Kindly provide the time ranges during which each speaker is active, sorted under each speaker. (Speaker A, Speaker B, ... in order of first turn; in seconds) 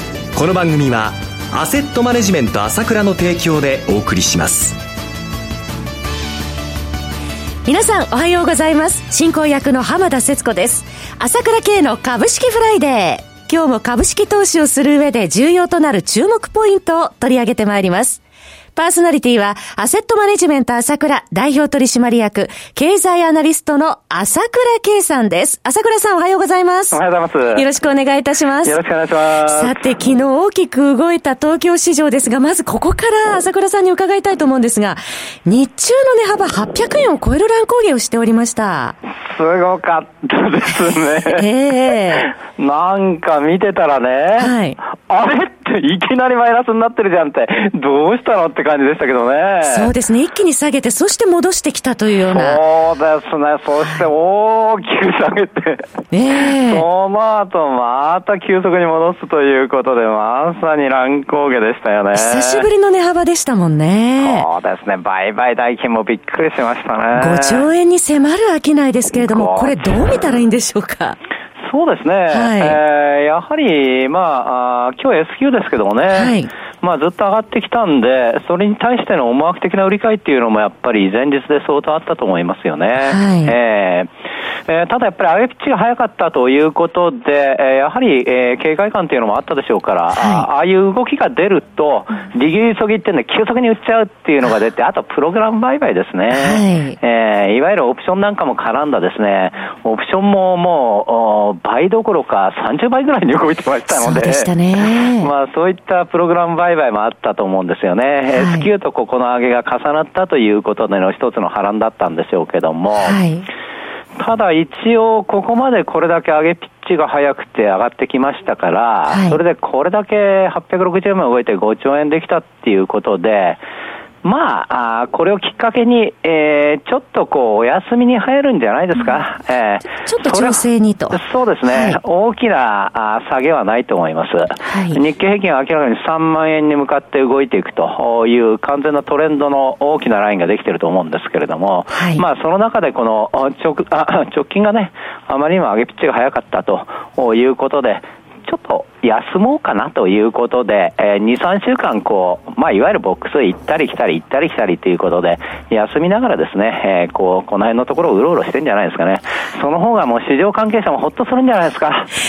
Speaker A: 0.3-4.8
Speaker B: 7.7-18.2, 18.8-28.8, 29.4-39.0, 41.2-42.3, 44.4-44.8, 49.6-52.6, 56.1-56.9, 62.1-64.5, 67.2-71.2, 72.3-72.8, 76.1-76.5, 83.0-83.5, 90.1-90.5, 96.3-97.0, 103.9-105.3, 108.3-108.7, 113.0-113.5, 119.1-119.4, 129.8-132.0, 134.7-135.0, 141.9-142.2
Speaker C: 26.9-27.6, 28.6-29.8, 39.2-41.5, 42.1-49.9, 52.3-55.9, 56.6-62.7, 64.2-67.7, 69.1-69.8, 71.6-84.1, 84.7-104.5, 105.2-113.2, 114.2-123.6, 124.2-162.1